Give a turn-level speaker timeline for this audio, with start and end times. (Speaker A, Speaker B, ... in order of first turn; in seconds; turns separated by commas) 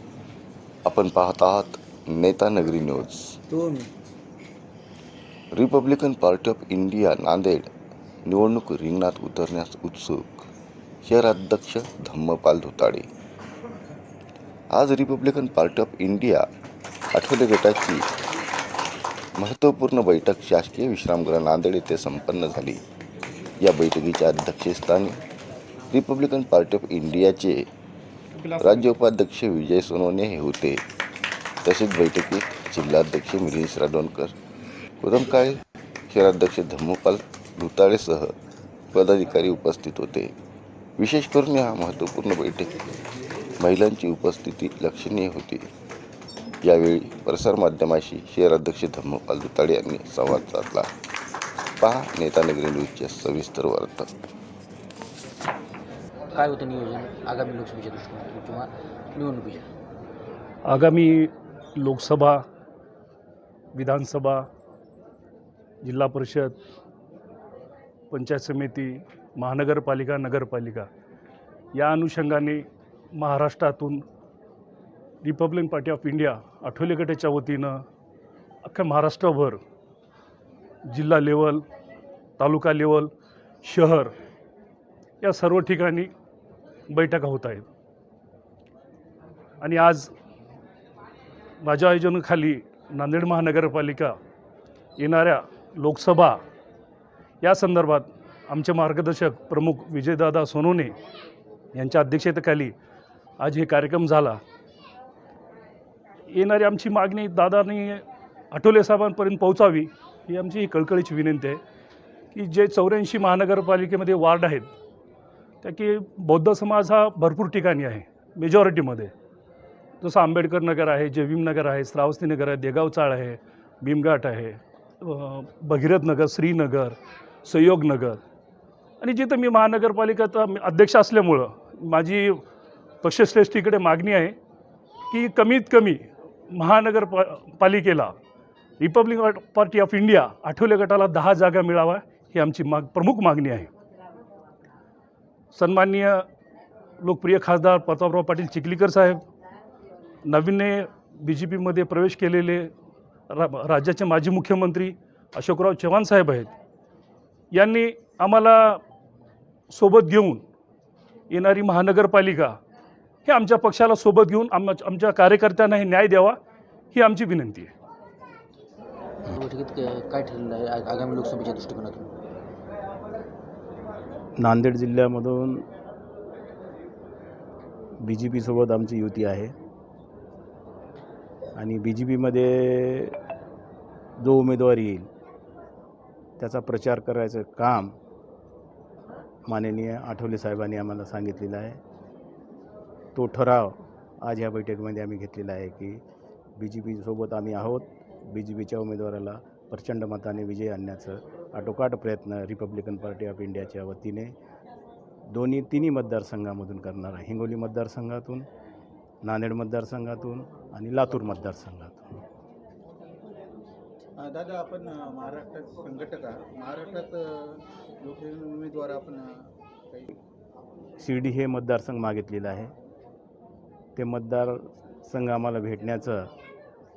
Speaker A: 0.8-3.4, Speaker B: 3.5-3.9, Speaker A: 5.5-7.7, Speaker A: 8.2-10.5, Speaker A: 11.1-13.1, Speaker A: 14.7-16.4, Speaker A: 17.1-18.1, Speaker A: 19.4-22.8, Speaker A: 23.6-25.2, Speaker A: 25.9-27.6, Speaker A: 28.5-30.8, Speaker A: 31.6-34.3, Speaker A: 35.0-38.3, Speaker A: 38.9-40.3, Speaker A: 41.0-42.7, Speaker A: 43.6-45.7, Speaker A: 46.6-50.9, Speaker A: 51.8-54.1, Speaker B: 56.3-59.7, Speaker C: 60.6-62.4, Speaker C: 63.7-64.5, Speaker C: 65.8-66.6, Speaker C: 68.1-70.9, Speaker C: 71.7-74.0, Speaker C: 75.2-77.8, Speaker C: 78.6-79.6, Speaker C: 80.8-81.6, Speaker C: 82.4-83.1, Speaker C: 83.6-84.1, Speaker C: 85.2-86.1, Speaker C: 86.9-87.7, Speaker C: 89.6-90.1, Speaker C: 91.6-94.2, Speaker C: 95.0-96.4, Speaker C: 97.4-100.9, Speaker C: 101.7-102.7, Speaker C: 103.4-104.4, Speaker C: 106.3-111.6, Speaker C: 112.3-114.7, Speaker C: 115.6-119.1, Speaker C: 120.0-128.2, Speaker C: 129.0-132.4, Speaker C: 133.0-134.3, Speaker C: 135.1-138.2, Speaker C: 138.8-143.7, Speaker C: 145.5-146.2, Speaker C: 147.0-149.2, Speaker C: 150.2-152.7, Speaker C: 153.3-156.5, Speaker C: 157.5-158.8, Speaker C: 159.7-160.4, Speaker C: 161.3-162.6, Speaker C: 163.2-166.4, Speaker C: 166.9-167.7, Speaker B: 169.3-172.1, Speaker D: 174.4-175.7, Speaker D: 178.0-179.5, Speaker D: 181.6-183.2, Speaker D: 184.2-185.1, Speaker D: 186.4-187.9, Speaker D: 189.5-191.8, Speaker D: 193.1-196.0, Speaker D: 196.6-204.3, Speaker D: 205.3-208.4, Speaker D: 209.2-212.2, Speaker E: 214.2-219.3, Speaker D: 221.0-222.7, Speaker D: 223.9-226.3